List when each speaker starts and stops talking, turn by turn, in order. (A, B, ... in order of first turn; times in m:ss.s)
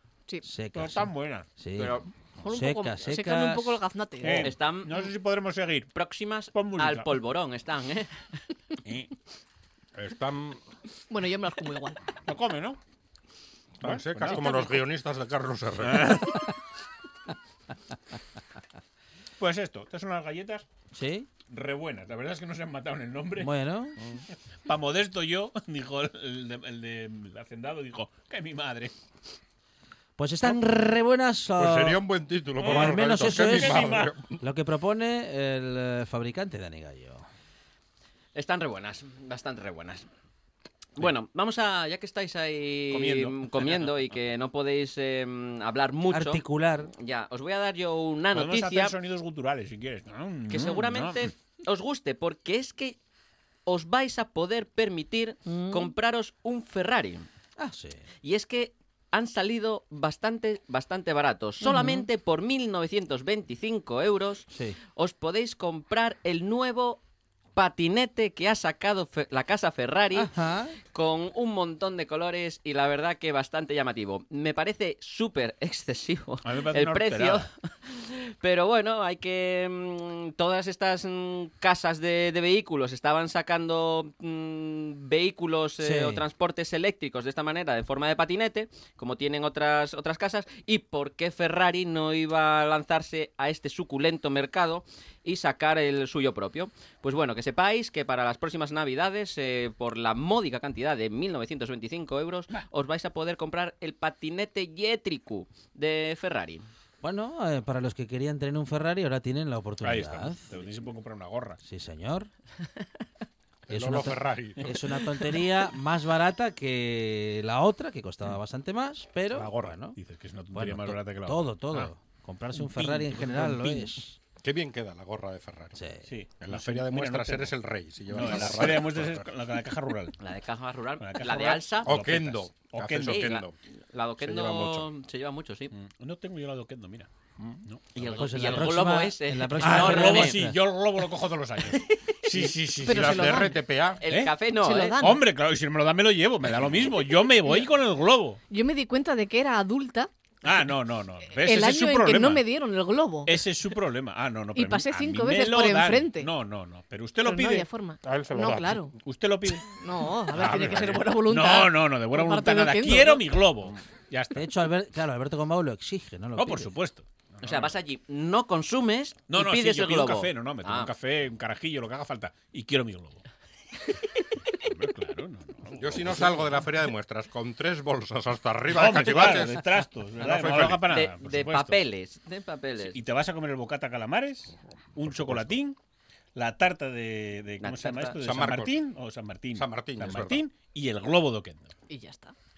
0:00.4-0:03.8 A
0:00.7-0:01.5 B
0:01.8-0:02.1 C
0:02.4-0:04.5 D
0:04.2-0:05.9 B
0:04.3-0:05.1 C
0:05.9-0:08.2 C
0:06.5-0:07.1 B
0:09.9-0:10.6 E
0:11.1-0:12.0 D
0:12.2-0:12.8 B
0:13.8-0:16.2 E
0:13.8-0:14.7 B
0:14.3-0:14.7 D
0:15.8-0:16.5 B
0:19.4-0:20.6 B
0:20.9-0:21.3 A
0:21.4-0:23.5 B
0:23.4-0:24.0 A
0:24.6-0:28.9 B
0:30.2-0:32.0 A
0:31.6-0:34.4 E
0:32.6-0:34.1 B
0:32.6-0:37.2 A
0:38.3-0:40.0 C
0:41.0-0:48.9 C
0:42.9-0:43.9 B
0:46.1-0:46.9 A
0:48.3-0:51.3 B
0:50.5-0:53.0 C
0:53.6-0:57.3 C
0:55.4-0:55.9 A
0:57.6-0:58.0 A
0:58.2-1:07.0 C
1:01.6-1:02.0 A
1:04.5-1:04.8 A
1:07.5-1:10.3 C
1:10.1-1:10.8 A
1:10.8-1:46.6 C
1:16.4-1:17.5 B
1:25.8-1:26.2 A
1:47.0-1:50.5 A
1:49.8-1:51.6 B
1:51.6-1:52.3 A
1:53.7-1:54.7 E
1:53.7-2:00.0 A
1:59.3-2:01.9 B
2:00.5-2:04.2 A
2:02.5-2:03.9 B
2:04.4-2:05.8 E
2:05.7-2:06.0 A
2:06.1-2:07.5 B
2:06.4-2:09.3 E
2:08.1-2:10.2 B
2:10.2-2:12.0 C
2:11.0-2:13.4 B
2:11.8-2:13.5 E
2:13.0-2:15.7 C
2:14.2-2:14.9 E
2:15.7-2:18.7 B
2:17.9-2:20.4 C
2:18.0-2:20.6 A
2:19.6-2:23.5 B
2:21.7-2:22.2 C
2:22.4-2:24.0 E
2:22.8-2:23.6 D
2:24.0-2:25.1 C
2:24.0-2:24.4 B
2:24.5-2:25.2 D
2:25.0-2:28.4 B
2:28.5-2:30.1 D
2:30.4-2:32.4 B
2:31.3-2:33.4 D
2:33.2-2:39.7 B
2:34.5-2:36.3 D
2:37.2-2:38.9 D
2:38.0-2:38.7 E
2:39.6-2:43.3 D
2:40.3-2:44.5 B
2:44.3-2:46.7 A
2:46.4-2:47.8 B
2:47.4-2:50.9 C
2:49.3-2:53.2 B
2:54.6-2:56.7 B
2:55.8-2:59.7 E
2:58.7-3:01.8 B
3:00.2-3:00.8 E
3:00.2-3:03.0 C
3:02.8-3:05.8 B
3:05.0-3:05.5 E
3:06.3-3:11.7 B
3:07.6-3:08.2 C
3:08.2-3:08.8 E
3:09.5-3:10.4 E
3:11.9-3:12.3 D